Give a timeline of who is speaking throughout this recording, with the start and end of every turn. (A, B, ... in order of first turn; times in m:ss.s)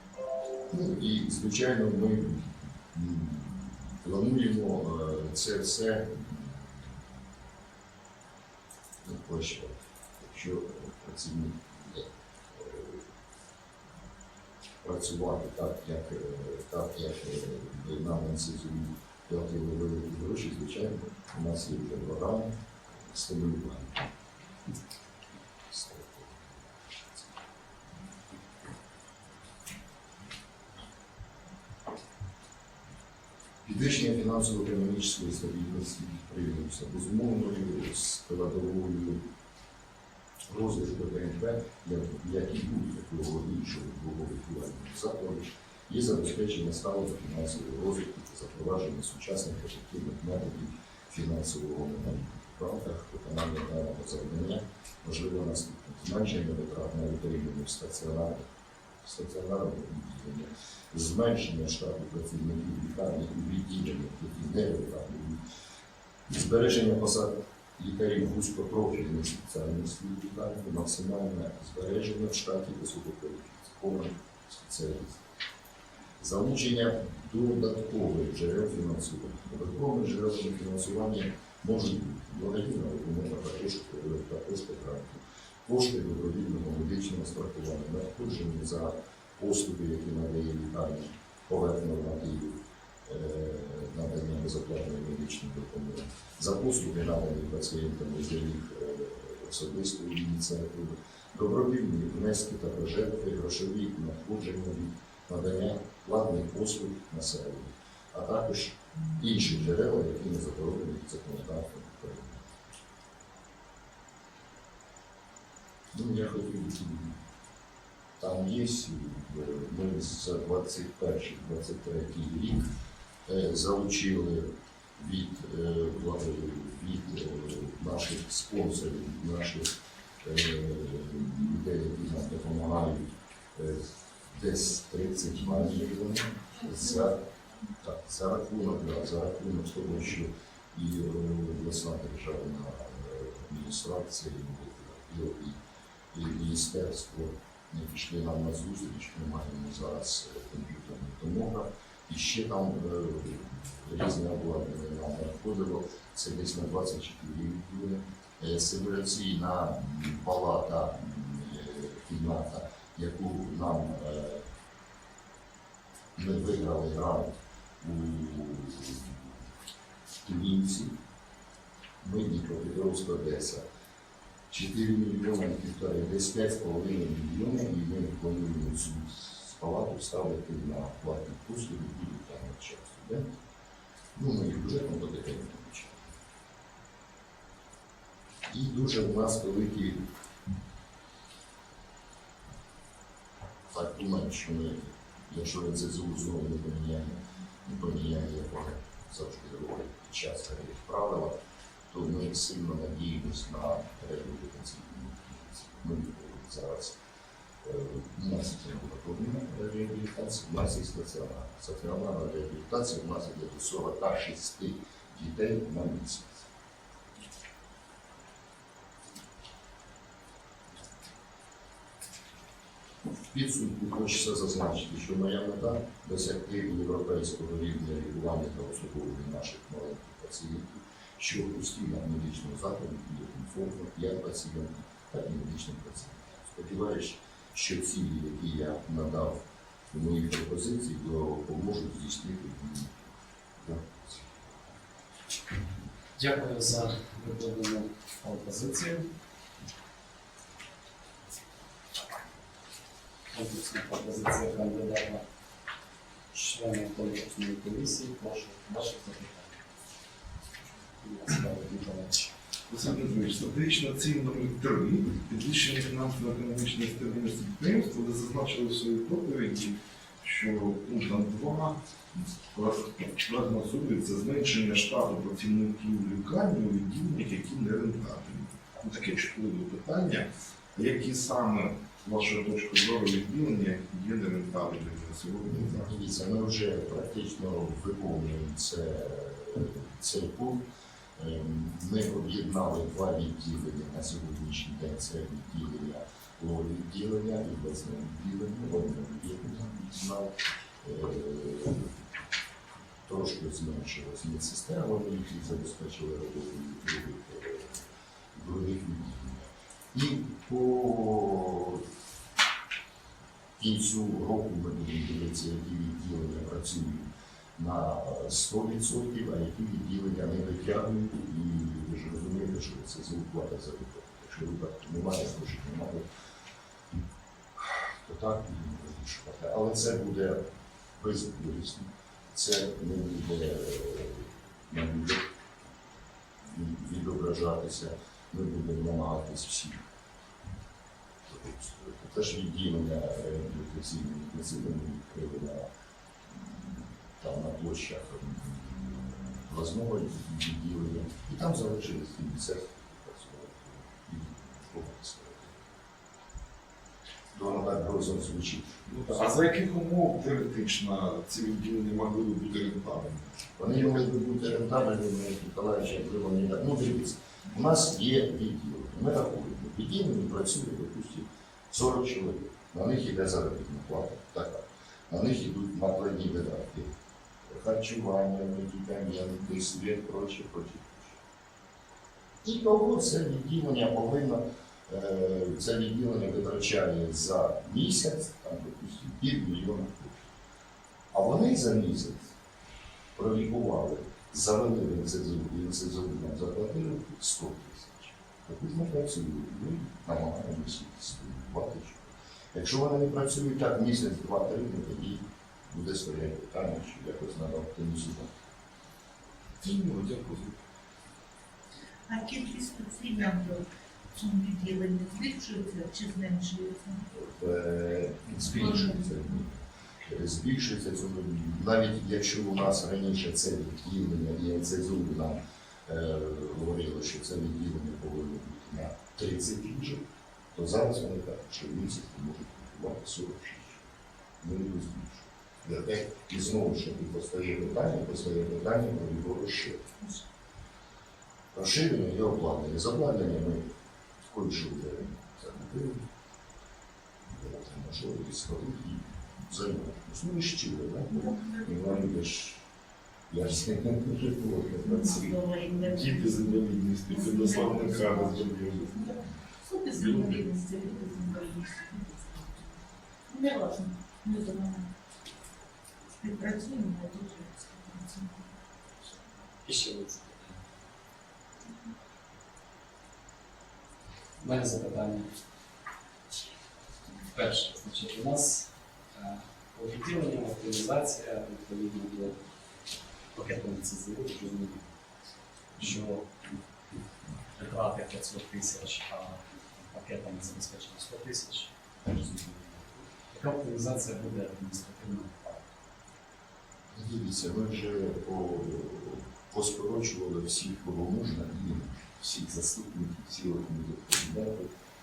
0:00.7-0:07.0 A
0:09.0-0:13.0 A
0:14.8-0:24.1 A
0:25.7-0:26.6 A
0:33.6-0:39.2 A
0:40.5-0:58.4 A
0:59.0-1:05.4 A
1:06.3-1:15.3 A
1:16.2-1:52.4 A
1:55.9-1:57.2 A
1:58.2-2:02.7 A
2:03.2-2:17.3 A
2:17.8-2:25.6 A
2:26.1-2:44.4 A
2:46.1-2:49.4 A
2:50.2-2:50.9 A
2:52.0-2:53.6 A
2:54.5-3:03.4 A
3:04.1-3:06.1 A
3:08.5-3:10.1 A
3:13.7-3:21.3 A
3:21.9-3:27.0 A
3:27.6-3:36.4 A
3:43.3-4:04.7 A
4:06.2-4:09.1 B
4:13.3-4:15.2 B
4:16.3-4:19.6 B
4:21.0-4:22.3 B
4:22.7-4:45.9 C
4:45.8-4:50.6 A
4:51.2-5:02.0 A
5:03.0-5:11.8 A
5:13.6-5:26.0 A
5:27.5-5:30.4 A
5:31.0-5:35.3 A
5:36.5-5:39.8 A
5:41.3-5:45.7 A
5:46.3-5:55.7 A
5:57.3-5:58.8 A
5:58.9-6:03.2 C
6:03.6-6:16.9 A
6:17.4-6:21.2 A
6:22.4-6:30.3 A
6:31.1-6:32.3 A
6:33.1-6:48.3 A
6:49.6-6:50.6 C
6:52.1-6:57.1 D
6:57.1-7:10.0 A
6:58.5-6:59.0 D
7:10.5-7:13.9 A
7:14.4-7:19.9 A
7:21.5-7:23.7 A
7:24.3-7:26.1 A
7:27.3-7:32.6 A
7:31.2-7:31.6 D
7:33.3-7:35.4 A
7:34.8-7:42.7 D
7:35.8-7:39.0 C
7:39.9-7:40.4 C
7:43.3-7:44.9 D
7:46.2-7:48.5 D
7:49.6-7:50.6 B
7:54.4-7:55.3 B
7:57.3-8:02.4 B
8:03.3-8:04.8 B
8:05.8-8:06.6 B
8:07.6-8:15.7 B
8:16.9-8:24.7 A